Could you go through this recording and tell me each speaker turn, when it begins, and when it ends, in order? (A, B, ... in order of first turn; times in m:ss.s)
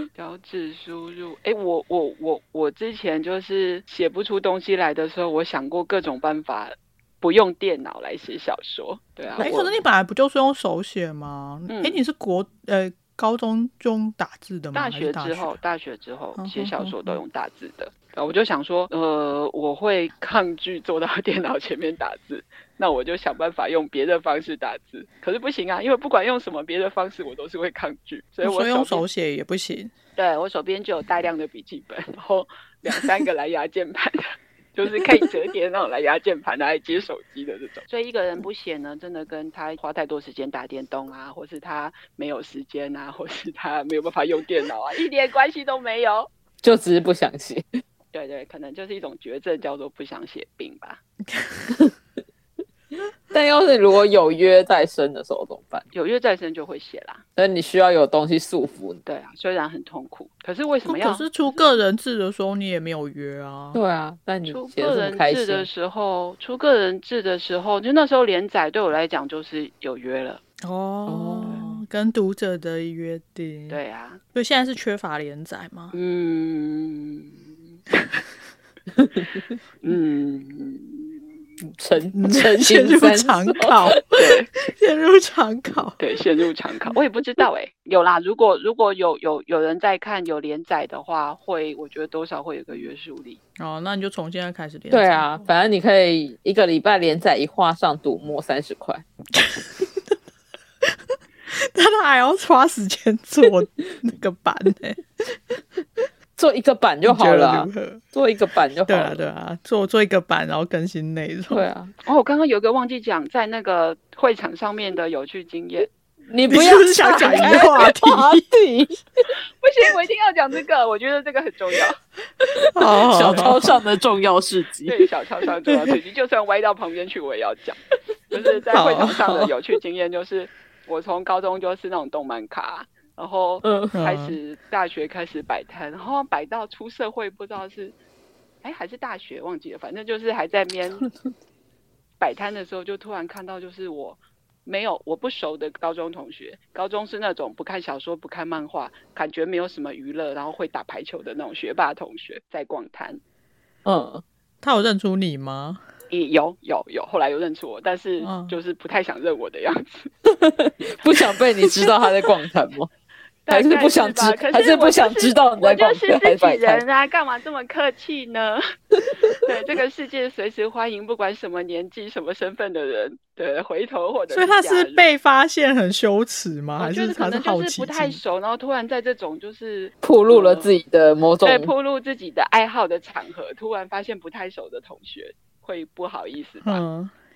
0:00.2-0:09.7 A
0:09.4-0:15.6 B
0:11.7-0:12.0 A
0:14.7-0:29.0 A
0:16.4-0:17.2 B
0:28.4-0:29.9 B
0:30.2-0:46.3 A
0:46.6-0:47.6 C
0:48.1-0:51.0 A
0:51.3-0:51.7 B
0:53.3-0:55.9 C
0:55.9-0:57.2 A
0:57.4-0:59.0 C
0:59.0-1:01.3 A
1:00.9-1:03.8 B
1:03.7-1:05.7 C
1:04.5-1:10.4 A
1:10.6-1:13.8 B
1:11.1-1:11.7 C
1:13.7-1:14.2 A
1:14.3-1:15.9 B
1:15.9-1:17.5 A
1:19.0-1:19.3 C
1:19.8-1:21.2 A
1:21.6-1:24.0 C
1:22.2-1:24.0 B
1:24.1-1:24.5 A
1:24.6-1:26.0 B
1:26.0-1:33.4 A
1:33.6-1:35.4 B
1:34.9-1:39.0 C
1:39.4-1:40.1 B
1:41.5-1:45.6 B
1:46.4-1:49.2 C
1:47.0-1:48.0 B
1:48.9-1:51.7 B
1:51.5-1:51.9 C
1:52.0-1:55.9 A
1:56.3-1:59.0 C
1:56.5-1:58.4 B
1:57.2-1:57.7 A
1:59.6-2:02.0 A
2:02.6-2:05.0 C
2:02.8-2:03.7 B
2:04.9-2:07.8 A
2:08.3-2:18.0 A
2:08.7-2:09.5 B
2:13.6-2:13.9 C
2:13.9-2:14.4 B
2:18.6-2:21.1 A
2:22.2-2:33.2 A
2:33.8-2:34.2 C
2:34.6-2:35.8 B
2:36.1-2:40.1 A
2:38.2-2:38.6 B
2:40.3-2:42.9 C
2:43.5-2:48.6 A
2:43.5-2:46.8 C
2:49.2-2:55.1 A
2:54.3-2:58.2 B
2:56.8-3:00.7 A
3:00.0-3:01.7 C
3:01.4-3:06.8 A
3:06.6-3:07.1 B